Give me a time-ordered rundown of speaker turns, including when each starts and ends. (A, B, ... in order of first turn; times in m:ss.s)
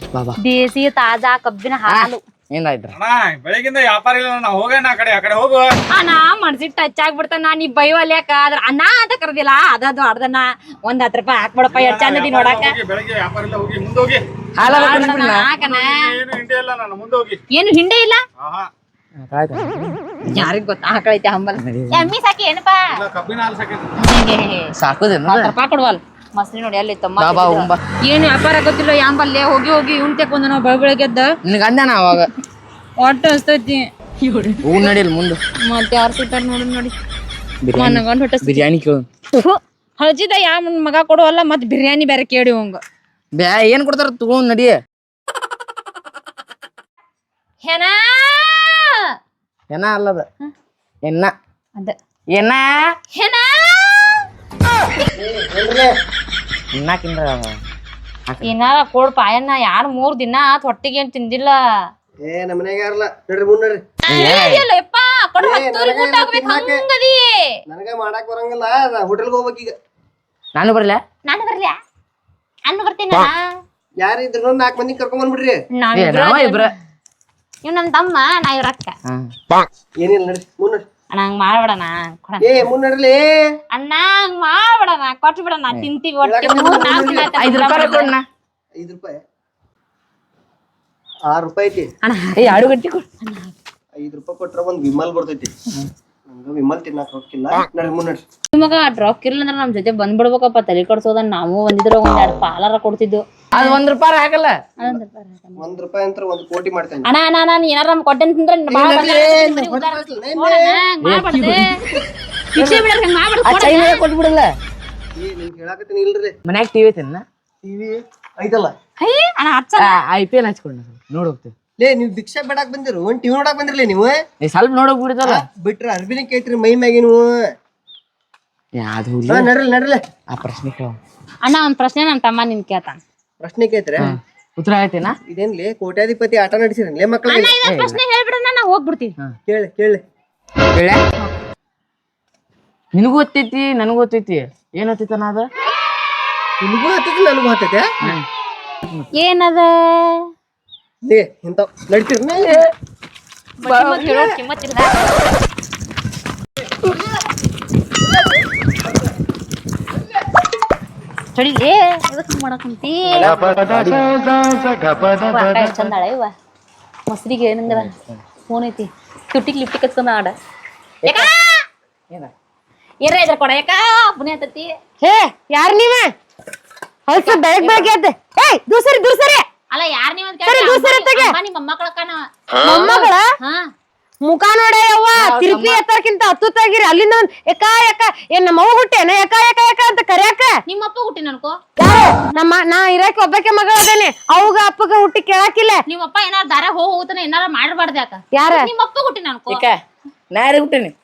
0:00.4-0:02.2 A
0:01.9-0:03.0 B
0:03.0-0:05.7 C
0:05.9-0:12.8 A
0:11.7-0:14.2 C
0:14.6-0:15.5 B
0:14.6-0:16.2 A
0:15.7-0:17.4 C
0:17.5-0:18.2 A
0:18.4-0:18.7 C
0:19.2-0:20.5 B
0:20.2-0:23.0 A
0:21.6-0:22.1 B
0:23.0-0:23.9 C
0:24.0-0:24.7 A
0:24.8-0:25.5 B
0:25.3-0:31.3 A
0:27.2-0:27.8 B
0:31.4-0:32.3 B
0:33.0-0:34.9 A
0:34.6-0:35.4 B
0:35.6-0:36.9 A
0:37.6-0:39.1 B
0:37.7-0:38.6 A
0:39.3-0:42.8 A
0:43.4-0:44.8 B
0:47.6-0:49.0 A
0:49.7-0:50.3 B
0:51.0-0:51.3 B
0:52.3-0:52.8 B
0:53.1-0:54.2 A
0:55.2-0:55.9 D
0:56.7-0:57.6 B
0:58.4-1:01.6 A
1:02.2-1:03.8 D
1:04.1-1:07.6 A
1:04.1-1:04.7 B
1:05.4-1:06.8 D
1:07.7-1:09.8 D
1:10.6-1:11.0 B
1:11.2-1:11.8 A
1:12.7-1:13.4 A
1:14.0-1:15.6 D
1:15.8-1:16.7 A
1:16.0-1:16.7 B
1:17.6-1:18.9 A
1:20.0-1:20.8 D
1:21.1-1:22.6 A
1:22.4-1:23.3 D
1:23.7-1:28.1 A
1:26.2-1:27.3 D
1:27.4-1:28.3 B
1:28.8-1:29.2 D
1:31.3-1:31.9 D
1:32.0-1:33.6 A
1:32.4-1:33.0 B
1:34.0-1:35.5 D
1:36.3-1:38.2 D
1:38.5-1:43.8 A
1:43.5-1:44.6 B
1:44.8-1:45.6 A
1:45.6-1:47.1 D
1:47.0-1:51.7 A
1:48.7-1:50.8 D
1:51.0-1:51.6 B
1:52.5-1:54.0 A
1:52.6-1:52.8 B
1:53.5-1:54.5 B
1:55.2-1:56.3 D
1:56.5-1:57.2 B
1:57.6-1:58.7 D
1:59.0-2:00.0 A
1:59.8-2:01.5 B
2:01.8-2:04.2 D
2:04.4-2:05.4 B
2:05.2-2:07.3 D
2:08.8-2:09.5 B
2:09.3-2:10.0 D
2:10.3-2:11.0 B
2:11.4-2:13.0 A
2:13.4-2:14.1 D
2:14.0-2:15.2 B
2:15.3-2:17.6 D
2:17.3-2:19.1 A
2:17.6-2:18.0 B
2:19.5-2:20.0 D
2:20.7-2:21.0 B
2:22.9-2:25.5 B
2:26.6-2:27.9 D
2:29.2-2:30.3 A
2:31.0-2:32.6 D
2:32.4-2:32.7 B
2:33.6-2:34.9 A
2:33.6-2:34.4 B
2:41.3-2:43.3 A
2:43.1-2:44.1 B
2:45.1-2:46.3 A
2:47.1-2:47.9 A
2:47.7-2:48.2 B
2:48.5-2:50.3 A
2:51.0-2:51.3 B
2:51.0-2:51.6 A
2:53.0-2:54.8 A
2:55.0-2:56.1 E
2:57.1-2:59.4 E
2:57.2-2:57.9 B
2:59.7-3:03.7 A
3:00.5-3:01.4 E
3:02.6-3:03.2 E
3:04.2-3:10.5 E
3:05.1-3:05.8 B
3:10.7-3:11.6 A
3:11.8-3:15.8 E
3:15.9-3:19.6 A
3:18.3-3:18.7 E
3:19.5-3:19.8 B
3:20.3-3:20.9 B